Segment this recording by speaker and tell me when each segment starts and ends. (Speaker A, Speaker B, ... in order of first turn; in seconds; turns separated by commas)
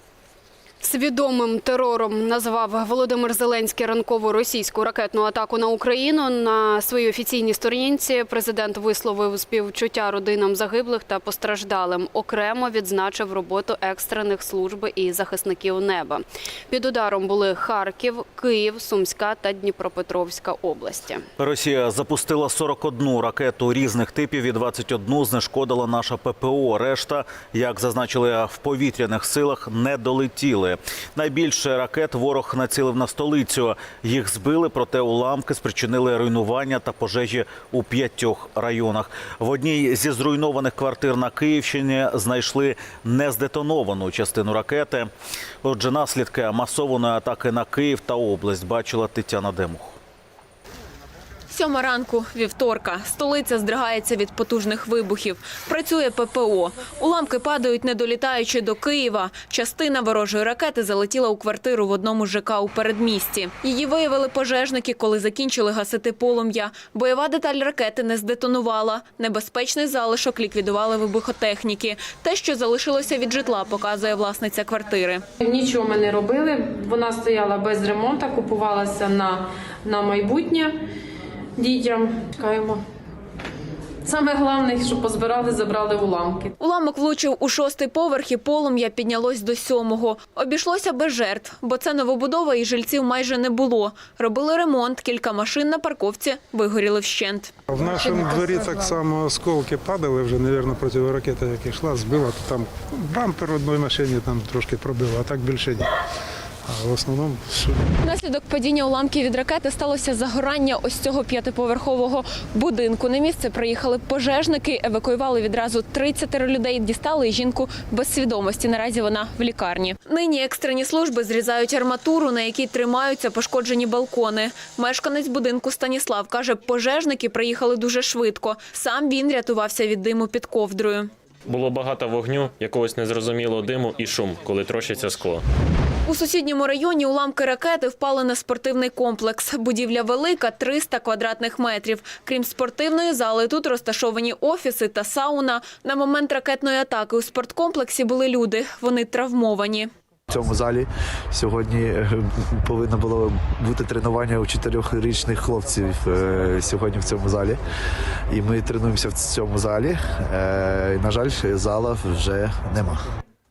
Speaker A: 0.8-21.2, Speaker B: 21.4-45.1, Speaker B: 45.6-50.0, Speaker C: 51.5-75.2, Speaker D: 75.5-80.7, Speaker D: 81.6-82.8, Speaker D: 84.0-86.5, Speaker C: 86.6-97.5, Speaker E: 97.7-105.9, Speaker E: 106.7-107.8, Speaker C: 108.0-131.1, Speaker F: 131.5-135.4, Speaker C: 136.1-149.9, Speaker G: 150.3-157.6, Speaker G: 158.3-163.0